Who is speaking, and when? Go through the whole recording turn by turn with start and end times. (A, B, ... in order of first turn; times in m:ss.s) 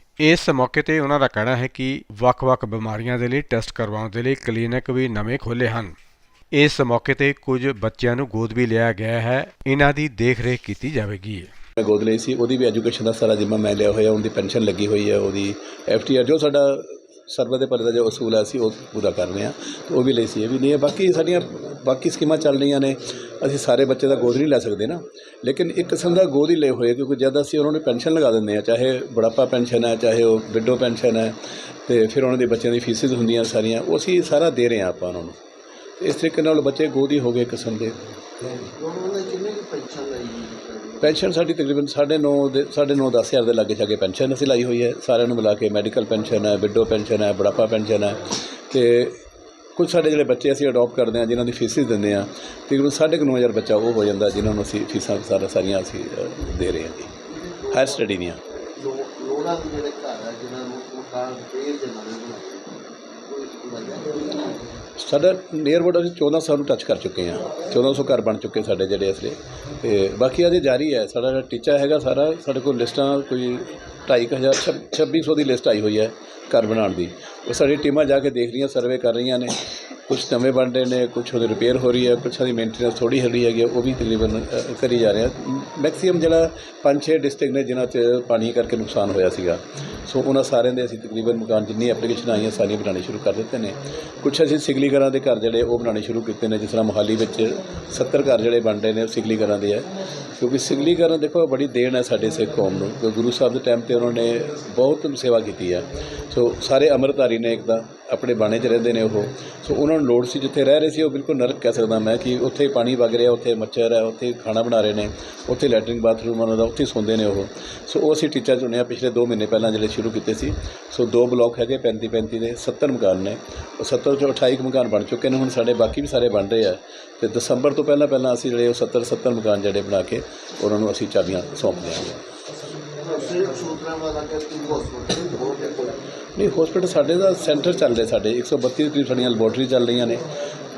0:00.2-0:06.0 A
0:06.5-0:11.5 A
0:11.8-0:35.4 B
0:36.0-0:38.6 B
0:38.8-0:41.2 C
0:41.0-0:49.2 B
0:49.8-0:57.1 B
0:57.3-0:58.1 C
0:57.7-0:58.4 B
0:58.8-1:04.6 C
1:05.0-1:19.6 B
1:20.1-2:12.2 B
2:13.0-2:16.0 C
2:16.4-2:20.2 B